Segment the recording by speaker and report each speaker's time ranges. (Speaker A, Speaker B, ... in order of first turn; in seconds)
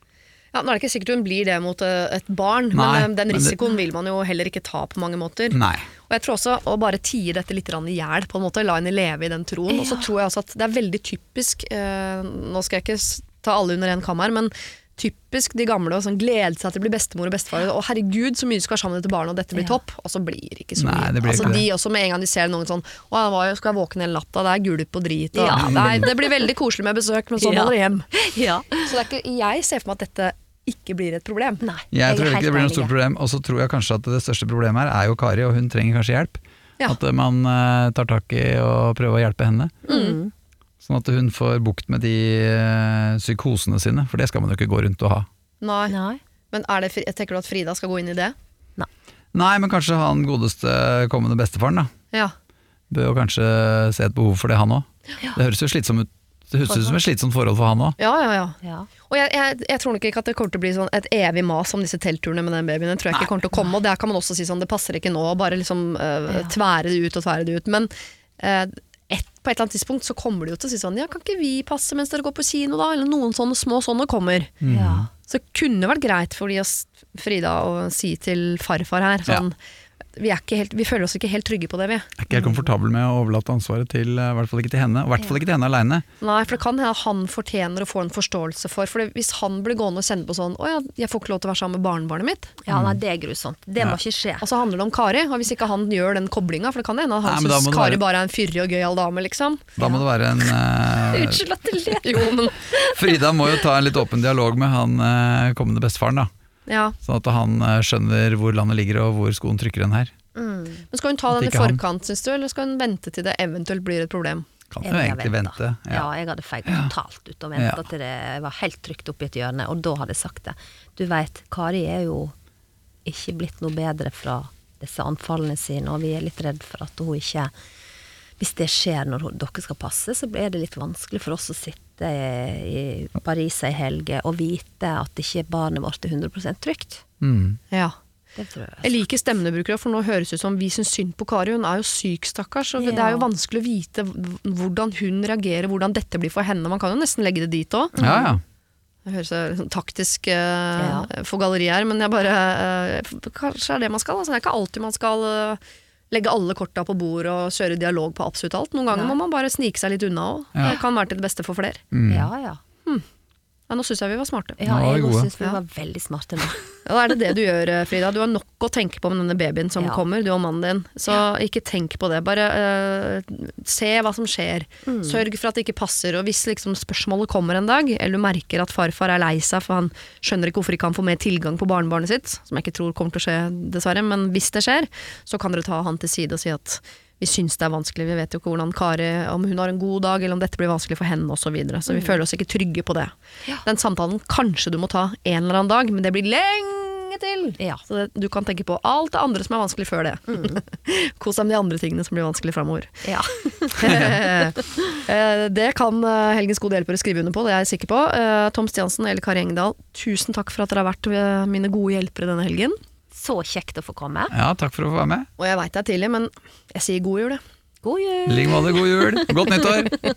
Speaker A: 0.5-28.1, 28.8-31.6, 39.9-40.2, 45.6-46.0, 46.5-48.4, 58.0-74.5, 75.3-79.5, 80.2-82.3, 86.2-92.5, 94.4-99.9, 102.0-102.6, 106.7-107.0, 110.9-114.5, 138.8-148.1, 149.1-161.8, 163.7-164.6, 166.9-193.1, 193.6-203.0, 203.8-212.8, 215.4-217.4
Speaker B: 2.7-3.5, 5.5-5.8, 20.8-21.7, 25.5-26.1, 31.9-39.9, 40.8-45.3, 49.3-51.9, 52.9-58.0, 74.6-75.1, 82.2-86.1, 92.7-93.0, 97.2-98.0, 99.8-101.4, 102.8-106.3, 107.0-110.1, 111.3-111.8, 114.7-116.1, 116.7-116.9, 117.6-117.8, 137.2-137.6, 148.0-148.4, 161.9-162.3, 164.7-165.3, 203.8-204.2, 214.3-215.3, 218.3-220.0
Speaker C: 9.7-10.1, 19.5-19.8, 25.3-26.5, 27.4-28.9, 31.6-32.9, 39.9-40.3, 45.9-46.2, 56.7-57.0, 58.6-58.9, 74.7-75.1, 92.7-94.5, 101.0-103.0, 110.3-110.8, 114.8-122.3, 123.0-127.5, 128.4-137.0, 138.4-138.9, 142.8-143.3, 148.0-148.3, 150.8-151.1, 158.9-159.2, 162.1-162.6, 164.6-166.7, 169.8-170.0, 174.9-175.2, 191.9-192.2, 200.3-200.6, 203.0-204.2, 213.1-214.3, 217.8-219.4